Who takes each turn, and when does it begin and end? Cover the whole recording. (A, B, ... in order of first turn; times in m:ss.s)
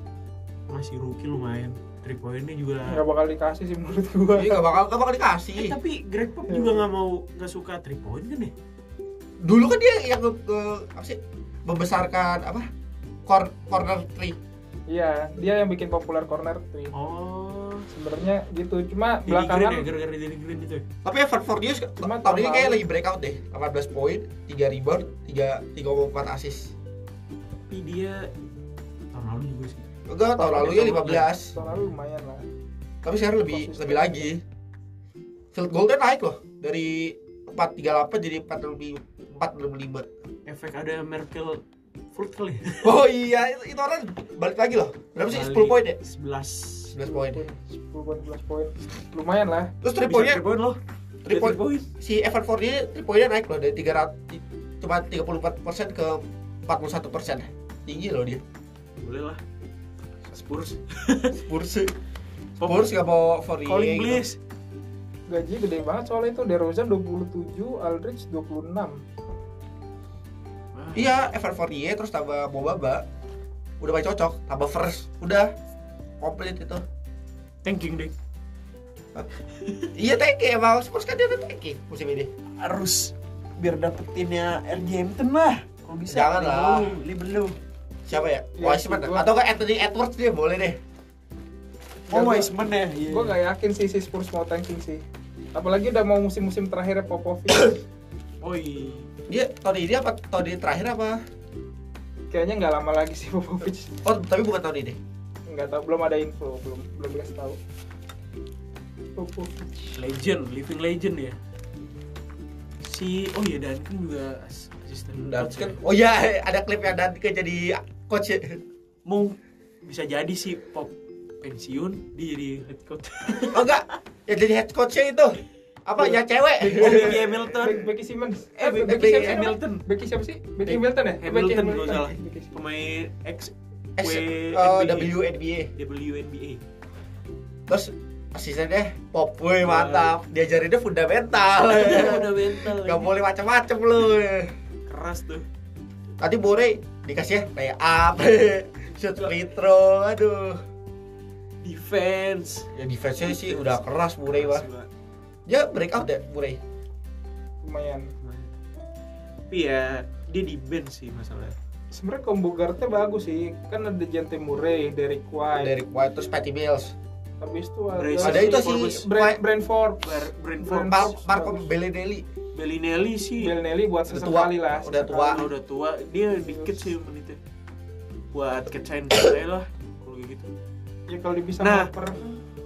0:00.7-0:03.0 A
0:02.9-0:04.6 B
0:04.4-0:05.8 C
0:05.5-0:08.5 A
0:06.5-0:06.8 B
0:09.4-0:12.7 C
0:13.3-0:14.4 C
0:14.9-0:17.0 B
0:16.9-0:17.9 A
0:17.9-0:19.9 B
0:19.3-0:20.8 A
0:21.0-0:26.7 C
0:22.0-0:22.8 B
0:27.7-0:28.3 A
0:29.1-0:29.9 A
0:30.1-0:31.6 C
0:30.4-0:30.9 B
0:30.4-0:31.8 A
0:31.5-0:32.4 B
0:33.0-0:34.4 C
0:33.5-0:34.3 B
0:35.5-0:40.1 C
0:40.4-0:43.0 A
0:42.8-0:46.0 C
0:45.2-0:47.0 A
0:46.9-0:47.4 C
0:47.0-0:49.7 B
0:49.8-0:50.4 C
0:50.1-0:51.9 A
0:51.2-0:58.4 C
0:59.0-0:59.4 A
1:00.3-1:01.4 A
1:01.3-1:01.9 C
1:02.6-1:02.9 A
1:02.6-1:04.2 C
1:03.7-1:04.4 A
1:05.3-1:09.0 B
1:10.7-1:11.1 A
1:11.0-1:13.0 C
1:13.8-1:15.5 C
1:16.2-1:16.8 C
1:17.6-1:18.1 A
1:19.6-1:19.9 A
1:20.0-1:22.3 C
1:22.6-1:27.6 A
1:26.1-1:26.9 C
1:28.1-1:30.8 C
1:28.6-1:29.3 B
1:32.1-1:32.5 B
1:32.1-1:33.4 A
1:33.1-1:37.8 B
1:38.4-1:39.1 A
1:39.3-1:41.2 C
1:42.3-1:43.9 B
1:44.0-1:45.0 C
1:45.5-1:47.6 B
1:49.2-1:50.0 B
1:50.0-1:51.4 A
1:52.8-1:55.8 A
1:55.2-1:58.6 C
1:59.0-2:03.8 A
2:03.5-2:07.7 C
2:06.0-2:12.6 B
2:06.7-2:07.9 A
2:08.6-2:09.8 A
2:08.8-2:09.5 C
2:11.2-2:15.1 A
2:14.0-2:15.7 C
2:15.7-2:16.6 A
2:17.7-2:24.5 C
2:19.6-2:20.2 A
2:21.7-2:23.1 A
2:24.9-2:25.5 A
2:26.2-2:30.6 C
2:31.6-2:32.7 A
2:32.7-2:34.7 C
2:33.2-2:34.9 A
2:35.5-2:36.6 C
2:37.6-2:38.1 B
2:38.2-2:38.5 A
2:39.5-2:41.6 A
2:41.9-2:45.8 B
2:45.6-2:47.0 C
2:47.4-2:51.7 B
2:48.0-2:49.1 A
2:48.2-2:49.4 C
2:50.0-2:51.1 A
2:50.8-2:52.3 C
2:52.5-2:53.6 A
2:53.4-2:55.5 B
2:54.1-2:55.5 C
2:55.3-2:57.4 A
2:56.4-2:56.9 B
2:58.3-3:00.5 A
3:01.1-3:02.4 B
3:01.6-3:01.9 A